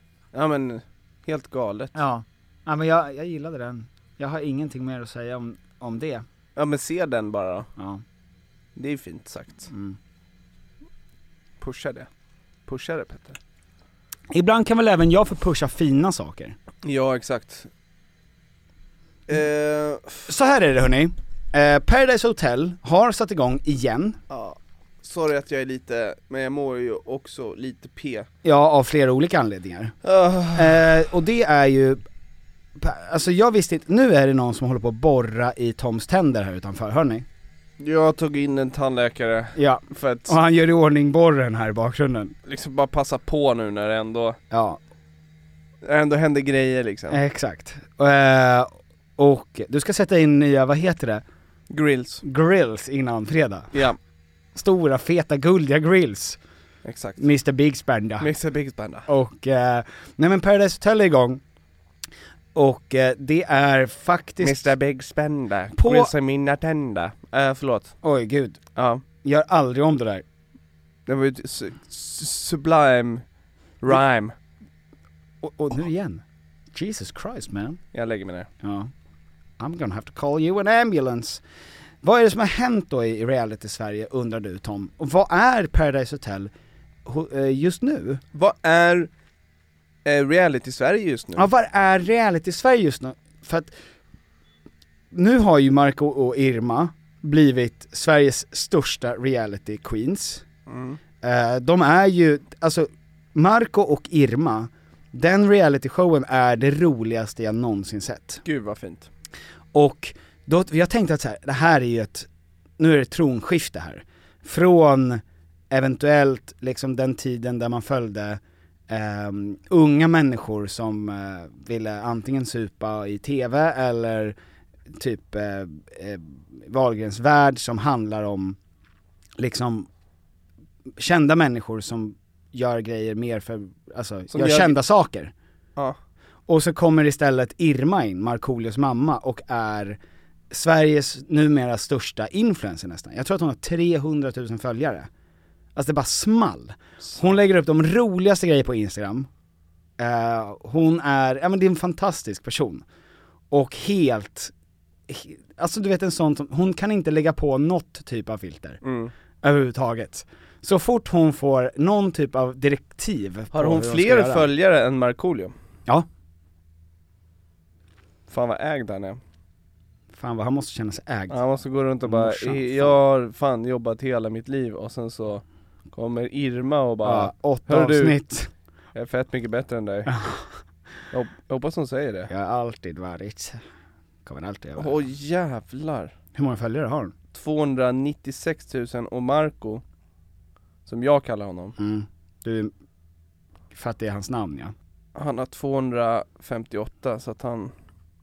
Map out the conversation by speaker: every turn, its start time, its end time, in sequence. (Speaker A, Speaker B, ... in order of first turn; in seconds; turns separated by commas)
Speaker A: 0.3-2.0, Speaker B: 1.9-6.2, Speaker A: 6.5-7.7, Speaker B: 7.8-8.0, Speaker A: 8.8-9.7, Speaker B: 9.7-10.0, Speaker A: 11.6-12.1, Speaker A: 12.7-13.4, Speaker B: 14.3-16.6, Speaker A: 16.8-17.7, Speaker A: 19.3-20.2, Speaker B: 20.3-24.2, Speaker A: 24.3-28.3, Speaker B: 28.4-29.9, Speaker A: 30.0-30.9, Speaker B: 30.5-32.0, Speaker B: 32.8-37.2, Speaker A: 37.8-40.4, Speaker B: 39.5-42.3, Speaker A: 42.5-44.4, Speaker B: 44.5-44.8, Speaker A: 45.8-47.2, Speaker B: 47.1-51.2, Speaker A: 51.7-52.2, Speaker B: 52.2-53.8, Speaker B: 54.5-56.4, Speaker A: 56.8-57.2, Speaker B: 57.2-58.3, Speaker A: 58.2-59.1, Speaker B: 59.1-61.4, Speaker B: 62.5-64.8, Speaker A: 64.4-67.9, Speaker B: 65.7-66.1, Speaker B: 68.0-68.6, Speaker A: 68.8-69.0, Speaker B: 69.2-70.2, Speaker A: 71.1-73.2, Speaker A: 73.8-74.3, Speaker B: 75.4-77.8, Speaker A: 77.9-78.5, Speaker B: 78.6-78.9, Speaker B: 79.6-81.4, Speaker B: 82.0-86.5, Speaker B: 87.0-88.2, Speaker A: 88.3-89.1, Speaker A: 90.0-91.5, Speaker B: 91.3-93.7, Speaker B: 95.1-100.4, Speaker A: 100.7-101.0, Speaker B: 101.2-108.4, Speaker A: 108.4-109.1, Speaker B: 109.7-124.3, Speaker B: 124.9-128.6, Speaker B: 129.4-129.9, Speaker B: 131.0-135.3, Speaker A: 134.3-134.7, Speaker B: 136.5-140.0, Speaker B: 140.5-145.1, Speaker B: 145.8-149.3, Speaker B: 150.0-152.8, Speaker B: 153.5-154.5, Speaker B: 155.1-158.8, Speaker A: 158.8-159.1, Speaker B: 159.4-164.5, Speaker A: 163.5-165.5, Speaker A: 168.3-169.2, Speaker B: 170.1-171.4, Speaker A: 171.3-178.2, Speaker B: 172.0-173.0, Speaker B: 177.0-178.5, Speaker A: 178.9-180.2, Speaker B: 180.1-180.5, Speaker A: 181.1-182.3, Speaker B: 182.3-183.6, Speaker B: 184.2-185.0, Speaker A: 184.8-186.1, Speaker B: 186.3-187.1, Speaker A: 187.3-189.8, Speaker A: 190.8-191.7, Speaker B: 191.8-192.7, Speaker B: 193.7-194.7, Speaker A: 195.1-197.7